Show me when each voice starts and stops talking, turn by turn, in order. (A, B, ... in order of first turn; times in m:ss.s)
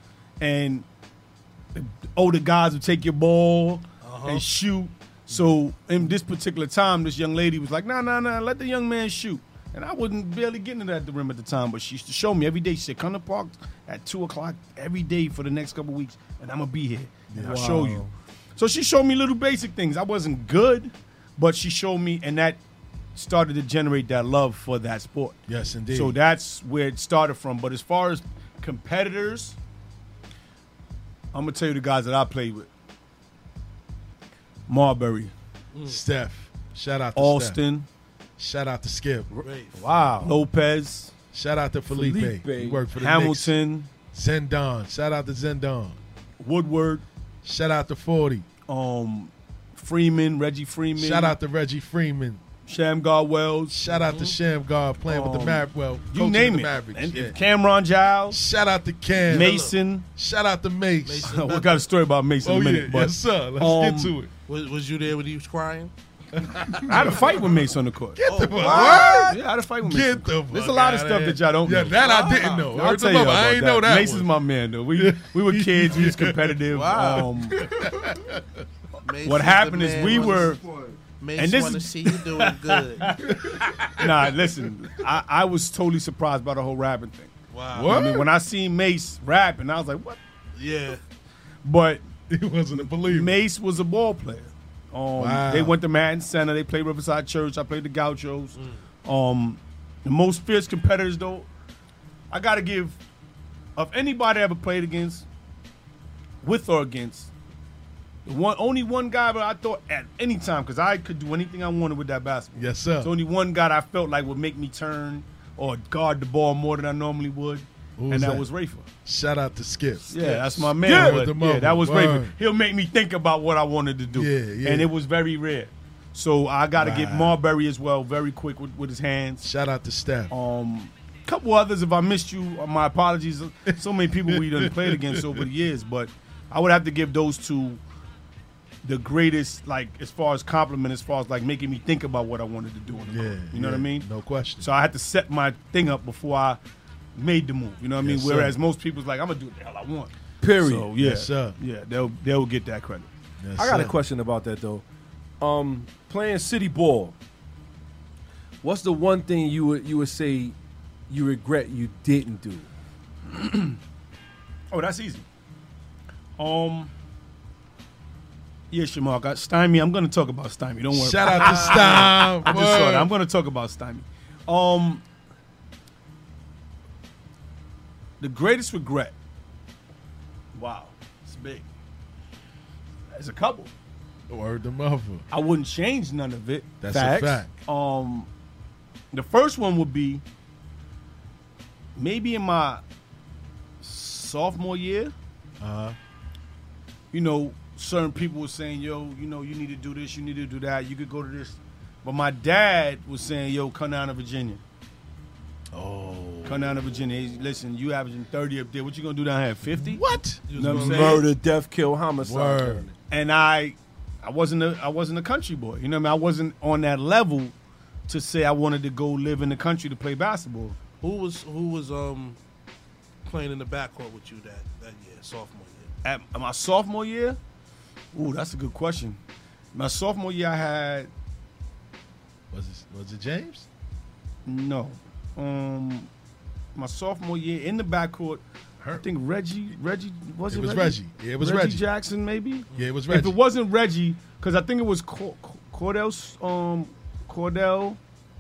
0:00.4-0:00.8 A
0:01.7-0:22.6 A
0:04.0-0:04.5 B
0:17.3-0:17.8 C
0:17.4-0:18.1 D
0:23.2-0:29.6 A
0:25.5-0:26.2 C
0:31.3-0:32.7 A
0:34.7-0:35.3 A
0:35.7-0:36.0 B
0:35.9-0:37.6 C
0:37.2-0:37.9 A
0:38.4-0:39.3 C
0:39.3-0:40.4 D
0:39.4-0:39.8 B
0:40.2-0:41.1 A
0:41.3-0:43.5 C
0:41.9-0:42.8 D
0:43.0-0:43.9 A
0:44.1-0:46.0 C
0:46.4-0:47.0 A
0:47.4-0:48.5 C
0:48.7-0:51.4 A
0:51.0-0:52.4 C
0:52.6-0:53.8 A
0:53.7-0:57.4 C
0:54.0-0:54.4 B
0:55.0-0:58.4 A
0:58.3-0:59.6 C
0:59.3-1:00.1 A
0:59.3-0:59.8 B
1:00.1-1:01.3 C
1:01.0-1:01.8 B
1:01.2-1:04.2 A
1:02.4-1:04.3 C
1:04.5-1:05.9 B
1:06.4-1:07.4 C
1:06.8-1:07.4 B
1:06.9-1:17.7 A
1:08.2-1:14.3 C
1:08.2-1:09.3 B
1:11.9-1:12.7 B
1:15.0-1:16.6 C
1:16.7-1:17.3 B
1:17.4-1:18.6 C
1:19.1-1:20.6 B
1:19.2-1:20.6 A
1:21.2-1:23.2 B
1:21.4-1:23.3 A
1:23.3-1:24.1 C
1:24.0-1:30.2 A
1:27.5-1:28.0 B
1:27.7-1:28.3 C
1:30.6-1:31.0 B
1:31.6-1:32.0 A
1:32.3-1:33.3 C
1:33.0-1:41.5 A
1:35.2-1:35.8 C
1:38.6-1:38.8 B
1:42.3-1:43.0 A
1:43.8-1:45.2 A
1:46.4-1:47.3 A
1:48.3-1:58.9 A
1:52.6-1:53.1 C
1:58.0-1:58.5 C
1:59.0-2:02.4 C
2:00.1-2:09.4 A
2:00.8-2:01.2 D
2:04.1-2:04.9 C
2:06.8-2:07.4 C
2:09.4-2:10.3 C
2:10.3-2:17.8 A
2:13.7-2:15.4 C
2:18.8-2:24.1 A
2:23.0-2:24.7 C
2:24.6-2:26.6 A
2:27.2-2:33.1 A
2:28.0-2:28.6 C
2:30.4-2:30.9 D
2:31.0-2:31.6 C
2:33.4-2:34.0 C
2:33.6-2:34.8 D
2:35.4-2:37.2 D
2:38.6-2:40.6 D
2:41.1-2:42.7 D
2:43.3-2:43.8 A
2:44.7-2:45.2 A
2:46.4-2:46.9 A
2:48.7-2:55.0 A
2:50.9-2:53.1 C
2:58.2-2:59.1 A
3:00.5-3:01.6 A
3:03.1-3:03.7 A
3:04.3-3:05.3 C
3:05.3-3:08.3 A
3:06.8-3:07.7 C
3:09.1-3:10.2 A
3:12.0-3:12.8 A
3:13.8-3:15.1 A
3:15.6-3:16.0 C
3:17.1-3:24.6 A
3:25.7-3:26.8 C
3:26.4-3:31.3 A
3:29.7-3:30.7 C
3:30.5-3:31.3 B
3:30.6-3:33.0 D
3:32.2-3:32.9 C
3:33.1-3:37.5 A
3:38.1-3:40.8 A
3:41.0-3:42.4 B
3:43.2-3:45.9 B
3:46.0-3:47.4 A
3:48.1-3:49.2 A
3:49.7-3:51.1 A
3:52.5-3:53.7 C
3:54.5-3:56.1 A
3:56.8-4:08.0 A
3:58.8-3:59.1 C
4:00.5-4:01.8 C
4:02.7-4:03.4 C